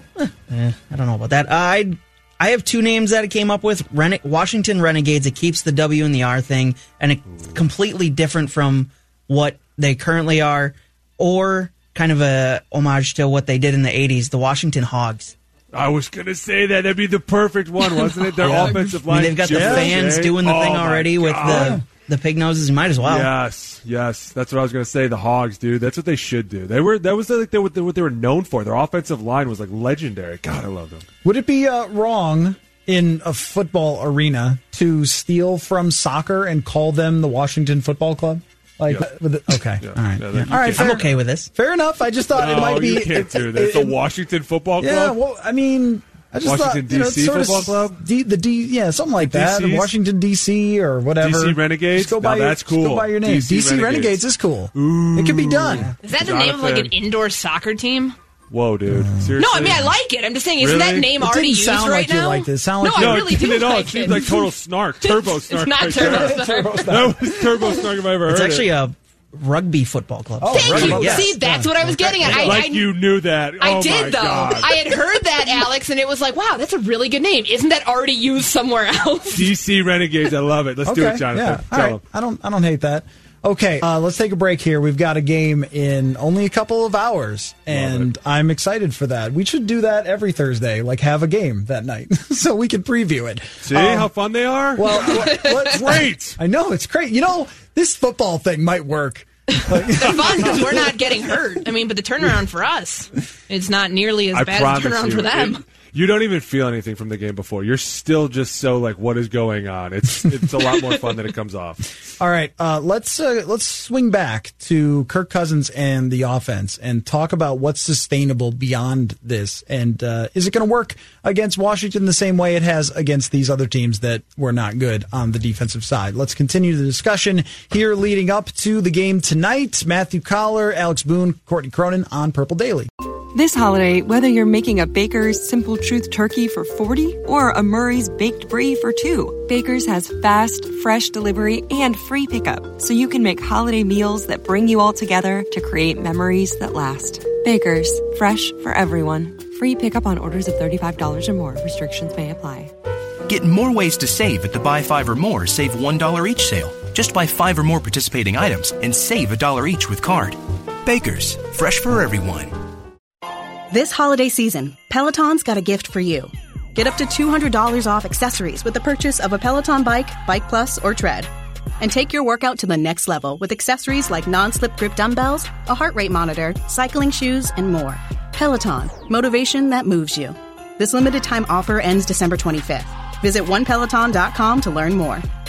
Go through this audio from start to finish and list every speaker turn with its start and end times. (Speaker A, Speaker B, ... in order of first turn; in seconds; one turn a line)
Speaker A: 0.2-15.3
Speaker B: 15.7-21.8
Speaker A: 18.4-23.3
Speaker C: 19.4-19.9
Speaker C: 21.4-21.8
Speaker B: 23.0-31.0
Speaker C: 31.2-44.0
Speaker B: 39.8-41.0
Speaker A: 40.4-41.5
Speaker B: 42.3-45.1
Speaker C: 44.8-55.9
Speaker B: 46.4-48.0
Speaker B: 49.2-49.9
Speaker B: 51.2-54.2
Speaker B: 54.7-56.9
Speaker D: 56.0-58.1
Speaker B: 58.5-59.9
Speaker C: 58.9-59.4
Speaker D: 59.4-64.4
Speaker B: 60.6-61.1
Speaker C: 61.1-63.4
Speaker B: 63.0-68.7
Speaker C: 64.1-64.4
Speaker D: 65.0-66.9
Speaker C: 66.0-67.7
Speaker A: 68.3-71.3
Speaker C: 70.4-72.7
Speaker D: 70.5-73.0
Speaker B: 70.7-71.0
Speaker B: 72.2-75.0
Speaker D: 73.6-79.5
Speaker B: 79.3-82.0
Speaker C: 80.8-94.1
Speaker B: 87.7-88.1
Speaker B: 93.6-96.4
Speaker C: 94.7-101.0
Speaker D: 94.9-95.8
Speaker D: 100.0-105.6
Speaker B: 104.3-111.8
Speaker C: 112.2-132.9
Speaker E: 133.3-152.7
Speaker F: 153.3-162.6
Speaker G: 163.7-171.3
Speaker G: 171.8-185.2